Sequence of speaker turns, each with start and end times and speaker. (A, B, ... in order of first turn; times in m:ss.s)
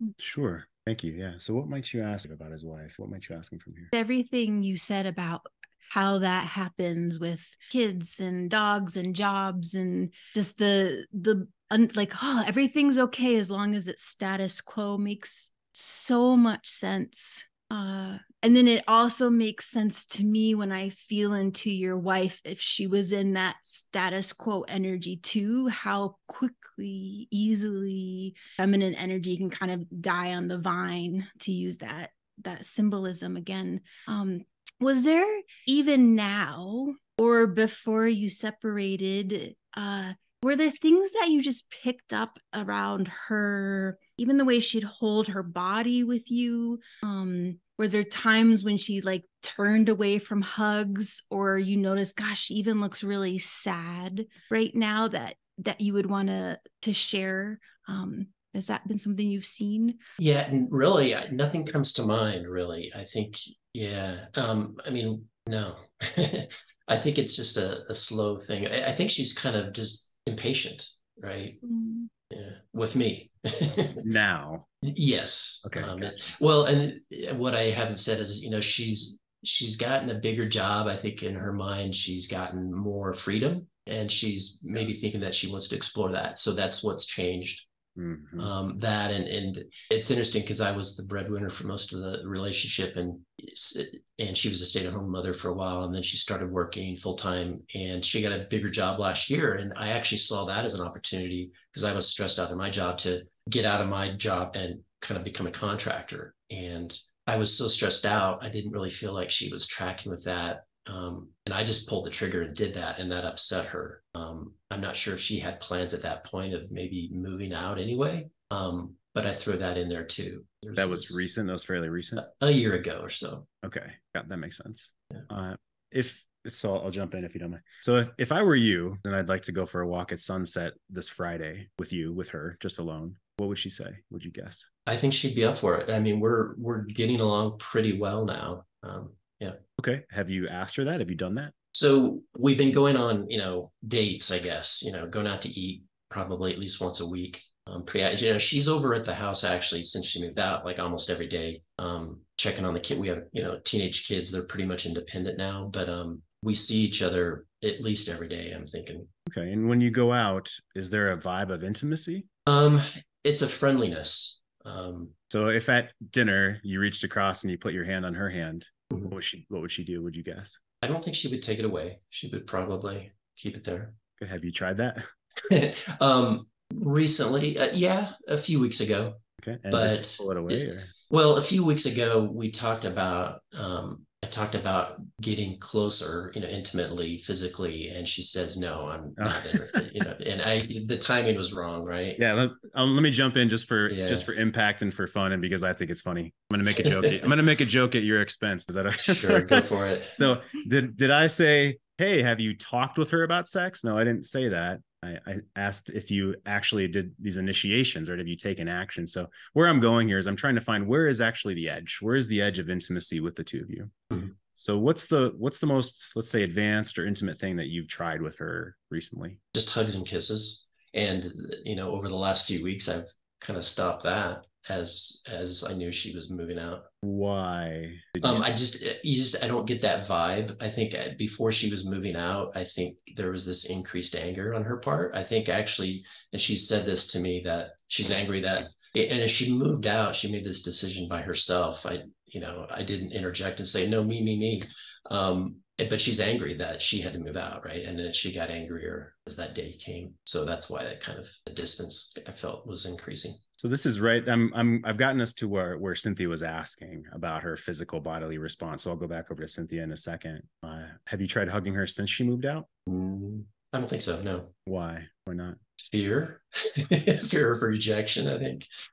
0:00.2-0:03.9 A
0:03.9-1:00.0 B
1:00.2-1:11.6 C
1:11.6-1:12.1 B
1:12.3-1:14.0 C
1:13.9-1:14.7 A
1:14.8-1:27.6 C
1:15.6-1:16.2 A
1:28.0-1:28.5 A
1:28.4-2:01.2 C
2:00.8-2:02.2 A
2:02.2-2:03.5 C
2:03.6-2:14.7 A
2:14.8-2:19.6 C
2:19.8-2:21.5 A
2:21.7-2:39.1 C
2:39.3-2:42.3 A
2:42.4-2:45.1 C
2:45.3-2:50.6 A
2:50.8-2:54.0 C
2:54.2-2:55.1 A
2:55.4-2:59.2 C
2:59.4-3:00.9 A
2:59.7-3:12.2 C
3:09.2-3:09.8 A
3:12.2-3:39.4 A
3:13.9-3:14.3 C
3:16.8-3:17.3 C
3:19.0-3:20.2 C
3:39.5-3:46.9 C
3:47.0-3:48.5 A
3:48.2-4:13.4 C
4:13.6-4:22.7 A
4:22.9-4:24.5 C
4:24.6-4:25.6 A
4:25.8-4:28.7 C